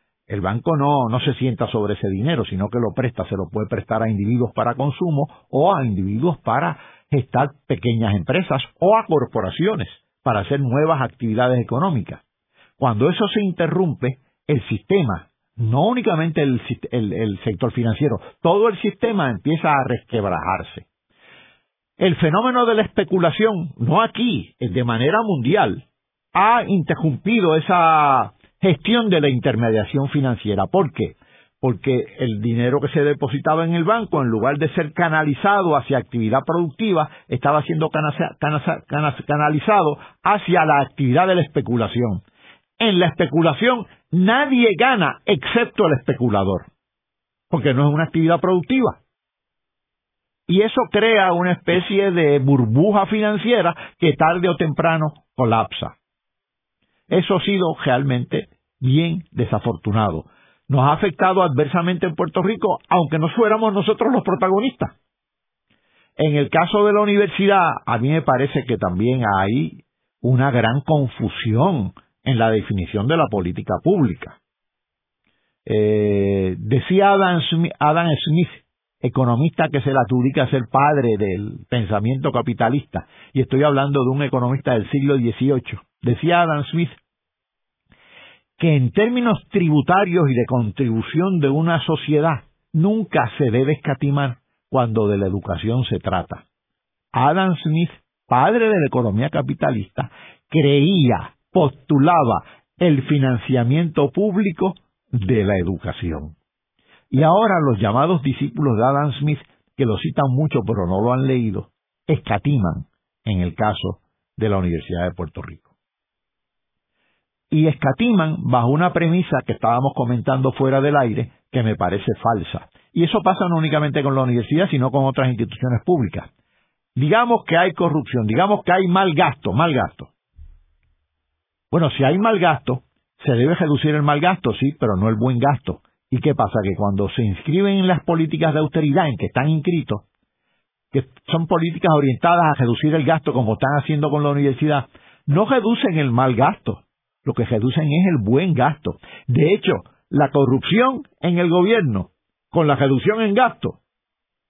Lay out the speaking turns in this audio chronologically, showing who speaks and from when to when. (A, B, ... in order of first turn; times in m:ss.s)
0:00.3-0:12.2 A
0:12.8-0:20.8 A
0:22.0-0:42.2 A
0:42.8-0:46.7 A
0:47.5-0:49.0 A
0:50.5-0:55.9 A
0:57.1-1:04.9 A
1:06.2-1:14.4 A
1:15.6-1:27.0 A
1:28.6-1:36.4 A
1:37.1-1:46.3 A
1:47.1-1:55.7 A
1:57.5-2:06.3 A
2:06.9-2:10.1 A
2:11.7-2:20.0 A
2:20.9-2:33.8 A